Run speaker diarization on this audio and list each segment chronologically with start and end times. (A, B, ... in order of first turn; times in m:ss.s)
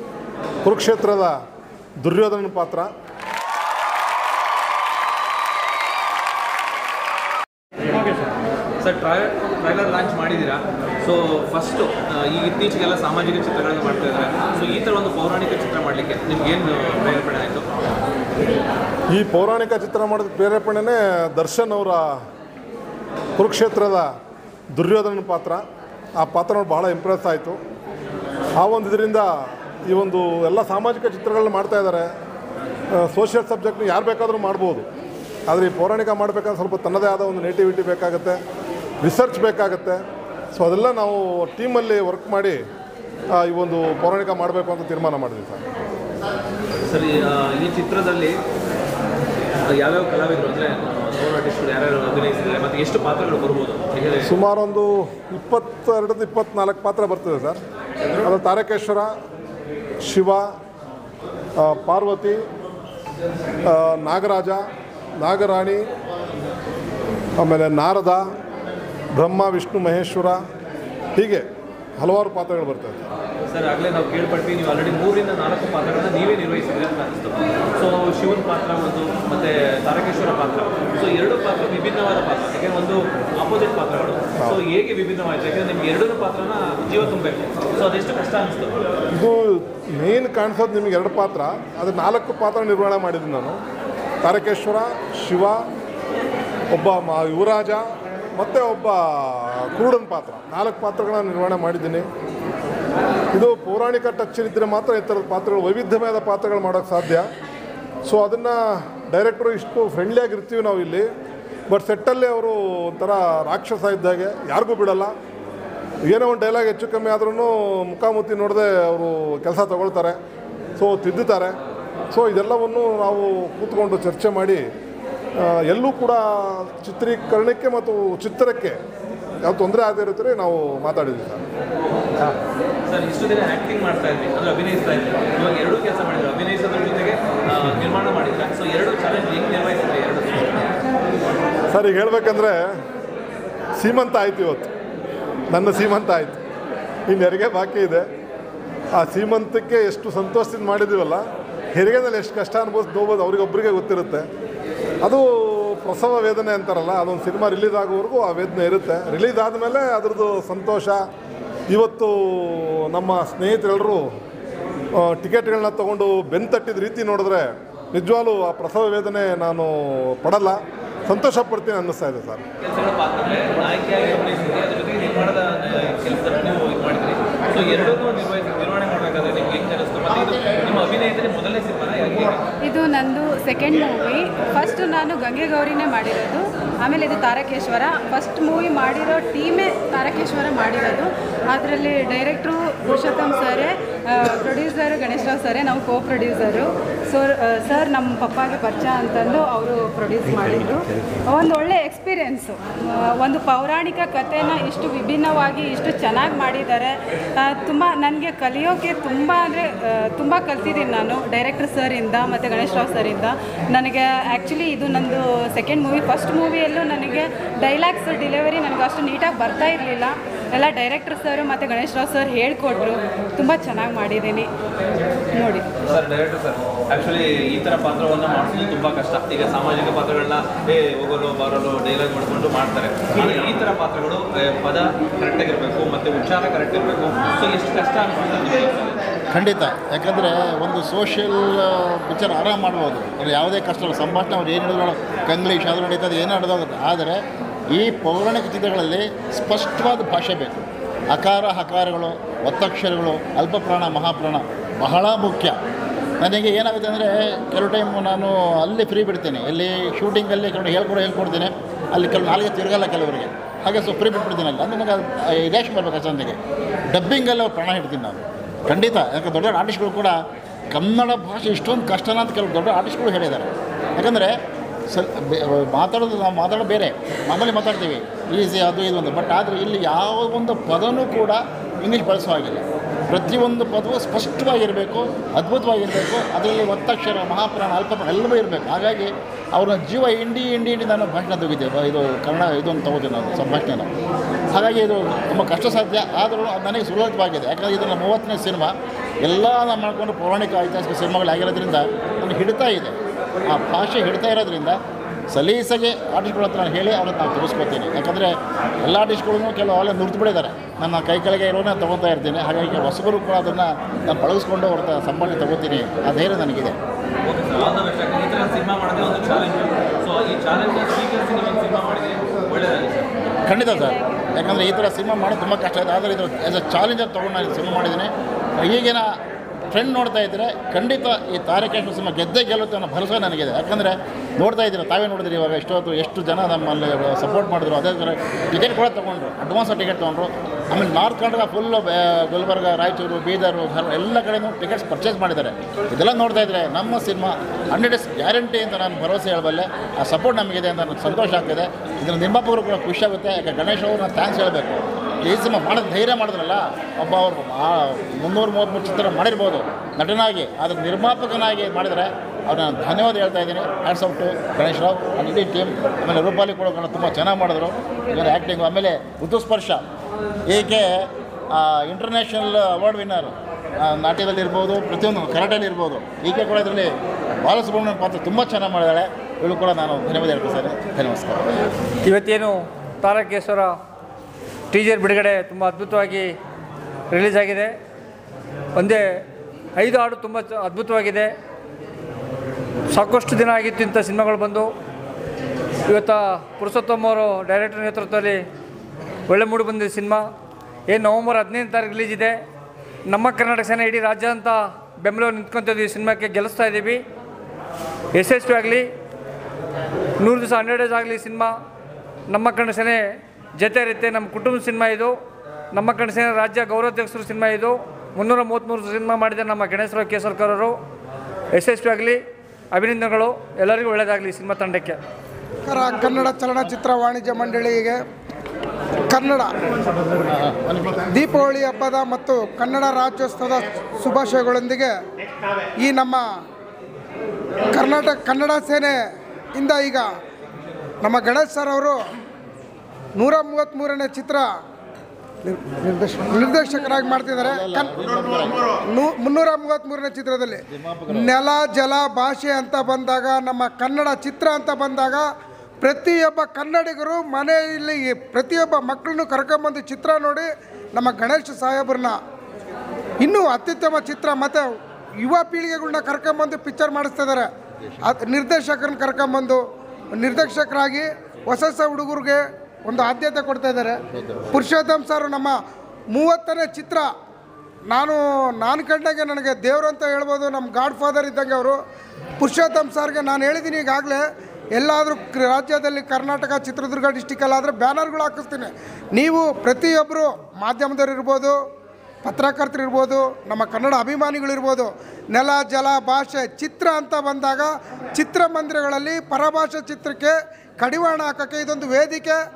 0:00.6-0:01.4 A
0:02.0-0:02.9 A
0:07.9-0:17.7 B
0:19.1-0:22.2 A
0:23.4-0:24.1 A
0:24.7-0:25.6 A
0:26.2-0:27.6 A
0:28.6-0:29.3 A
0:29.8-0:32.1 A
0:32.9-0:34.9 A
0:35.5-0:38.4 A
0:39.0-0:40.0 A
0:40.5-0:42.6 A
0:43.3-0:45.6 A
0:46.9-0:48.4 B
0:49.7-0:54.3 B
0:54.2-0:57.6 A
0:58.2-0:59.1 A
1:00.0-1:00.5 A
1:01.6-1:02.4 A
1:03.7-1:04.7 A
1:05.2-1:05.9 A
1:07.4-1:08.3 A
1:09.1-1:10.4 A
1:11.2-1:11.5 A
1:12.0-1:13.1 A
1:13.5-1:28.8 B
1:29.1-1:33.6 A
1:34.2-1:35.6 A
1:36.7-1:42.1 A
1:43.3-1:47.3 A
1:48.0-1:51.1 A
1:51.7-1:55.1 A
1:56.1-2:00.2 A
2:00.8-2:01.6 A
2:02.1-2:04.7 A
2:05.4-2:08.8 A
2:09.4-2:11.4 A
2:12.9-2:20.7 B
2:21.7-2:22.7 A
2:23.8-2:24.7 A
2:25.5-2:26.4 A
2:27.1-2:28.1 A
2:29.0-2:34.3 A
2:35.0-2:41.0 A
2:41.7-2:44.1 A
2:45.0-2:52.4 A
2:52.6-3:02.5 B
3:02.6-3:44.5 C
3:45.3-3:45.7 C
3:45.8-3:59.0 B
3:59.3-4:15.6 D
4:16.2-4:26.4 D
4:26.9-4:30.2 D
4:30.7-4:34.3 D
4:34.9-4:53.9 D
4:54.5-5:03.0 D
5:03.5-5:04.8 D
5:05.3-5:16.8 D
5:17.2-5:23.3 B
5:23.4-5:29.1 D
5:23.7-5:24.2 C
5:29.7-6:09.8 D
6:10.5-6:21.7 D
6:22.0-6:23.8 E
6:24.7-6:26.4 E
6:27.1-6:27.8 E
6:28.8-6:31.3 E
6:32.9-6:34.7 E
6:35.9-6:38.5 E
6:39.3-6:40.3 E
6:40.9-6:42.4 E
6:43.1-6:47.0 E
6:48.1-6:48.9 E
6:50.2-6:51.6 E
6:52.3-6:55.2 E
6:55.7-7:00.8 E
7:01.5-7:05.0 E
7:05.7-7:08.0 F
7:09.1-7:09.5 F
7:10.3-7:11.1 D
7:11.1-7:14.9 F
7:15.8-7:16.2 F
7:17.7-7:19.0 F
7:19.6-7:20.1 F
7:21.0-7:22.0 F
7:23.2-7:24.5 F
7:25.4-7:27.9 F
7:27.4-7:28.7 D
7:28.8-7:35.3 F
7:30.7-7:31.3 D
7:35.8-7:42.2 F
7:43.2-7:44.7 F
7:45.2-7:47.5 F
7:48.0-7:49.6 F
7:50.2-7:54.0 F
7:54.5-7:55.6 F
7:56.1-7:57.1 F
7:57.9-8:01.8 F
8:02.4-8:04.2 F
8:04.8-8:11.6 F
8:12.2-8:22.4 F